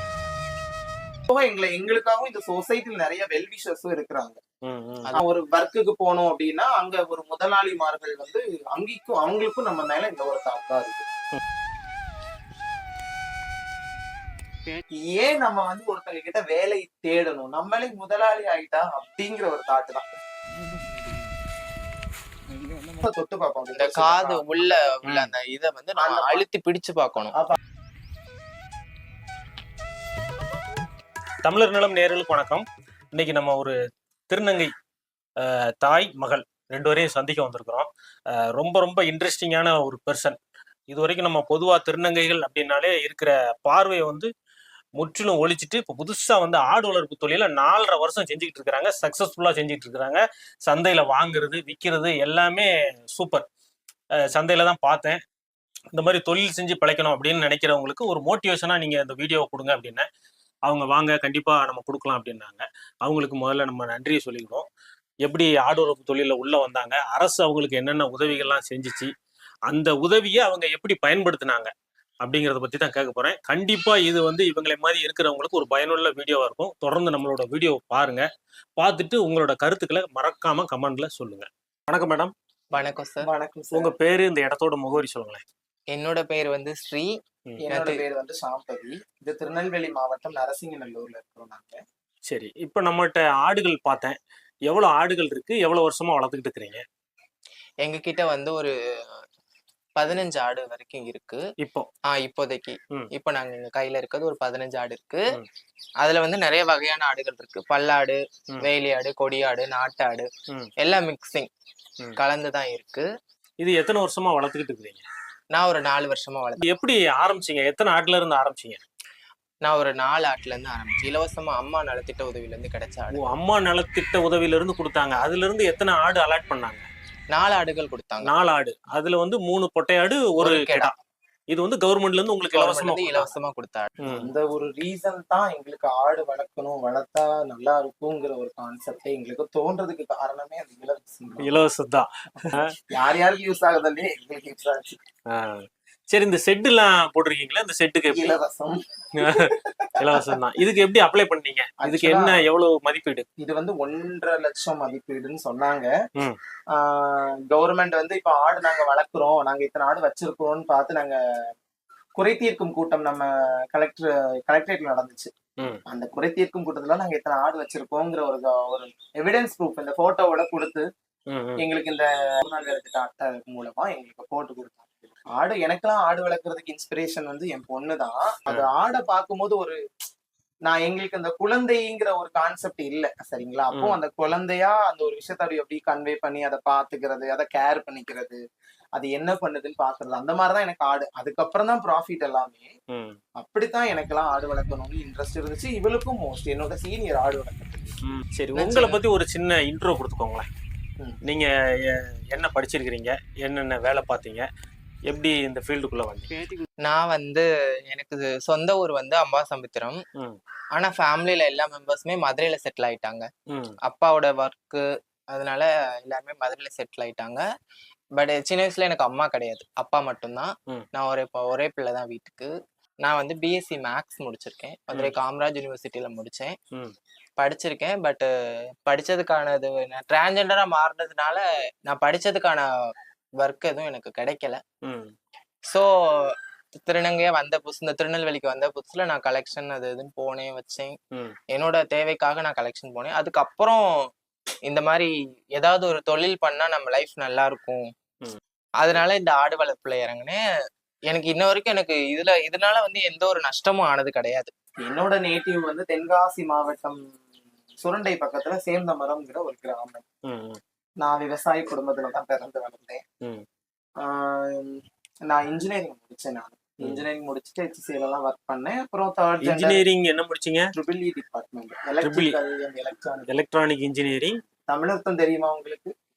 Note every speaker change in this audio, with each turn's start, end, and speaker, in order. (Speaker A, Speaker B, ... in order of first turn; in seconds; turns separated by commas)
Speaker A: 1.3-4.4, Speaker B: 4.7-5.2, Speaker A: 5.1-11.1, Speaker A: 15.1-20.1, Speaker A: 23.0-24.7, Speaker C: 23.7-27.3, Speaker A: 25.9-26.4, Speaker B: 31.4-33.7, Speaker B: 34.3-34.7, Speaker B: 35.4-37.9, Speaker B: 38.6-40.4, Speaker B: 40.9-44.3, Speaker B: 45.0-53.5, Speaker B: 54.3-55.2, Speaker B: 55.9-60.0, Speaker B: 60.7-64.7, Speaker B: 65.2-69.1, Speaker B: 69.7-71.7, Speaker B: 72.2-78.2, Speaker B: 78.8-82.3, Speaker C: 82.7-83.3, Speaker A: 83.2-83.9, Speaker B: 83.7-85.4, Speaker C: 85.9-87.1, Speaker A: 87.6-91.8, Speaker C: 87.7-88.0, Speaker B: 92.3-94.2, Speaker B: 94.7-96.8, Speaker C: 97.8-99.2, Speaker C: 100.0-101.4, Speaker B: 101.6-101.9, Speaker C: 102.1-105.2, Speaker C: 106.0-110.3, Speaker C: 110.8-111.5, Speaker C: 112.2-113.1, Speaker B: 113.6-115.0, Speaker C: 115.5-116.7, Speaker B: 116.6-118.8, Speaker C: 119.6-123.3, Speaker B: 123.2-126.8, Speaker C: 127.3-128.3, Speaker B: 128.2-130.9, Speaker C: 130.4-130.9, Speaker B: 131.5-133.3, Speaker C: 132.5-133.9, Speaker B: 134.0-134.3, Speaker A: 134.1-141.5, Speaker B: 141.4-142.7, Speaker A: 142.4-145.0, Speaker B: 146.1-148.4, Speaker A: 148.1-150.4, Speaker B: 149.2-153.3, Speaker A: 151.8-152.4, Speaker A: 153.4-155.9, Speaker A: 156.7-161.2, Speaker A: 162.2-165.3, Speaker A: 165.9-170.8, Speaker B: 171.3-171.6, Speaker A: 171.6-179.8, Speaker A: 180.7-188.4, Speaker A: 189.0-192.7, Speaker B: 192.9-193.2, Speaker A: 193.4-197.9, Speaker B: 198.1-200.5, Speaker A: 198.6-199.0, Speaker B: 201.3-204.5, Speaker B: 205.1-206.3, Speaker C: 206.8-210.0, Speaker C: 210.7-213.3, Speaker B: 213.5-213.8, Speaker C: 213.8-217.4, Speaker C: 218.2-222.5, Speaker C: 223.0-226.5, Speaker C: 227.4-228.3, Speaker C: 228.9-232.7, Speaker C: 233.4-234.6, Speaker B: 234.8-235.1, Speaker C: 235.7-240.9, Speaker C: 241.5-244.1, Speaker C: 244.7-247.8, Speaker C: 248.8-250.4, Speaker C: 251.1-254.5, Speaker A: 254.8-257.2, Speaker A: 257.8-260.0, Speaker B: 260.3-260.6, Speaker A: 261.0-263.0, Speaker A: 264.0-269.8, Speaker B: 269.4-270.7, Speaker A: 270.7-273.3, Speaker B: 272.0-272.3, Speaker B: 273.3-274.4, Speaker A: 274.7-275.9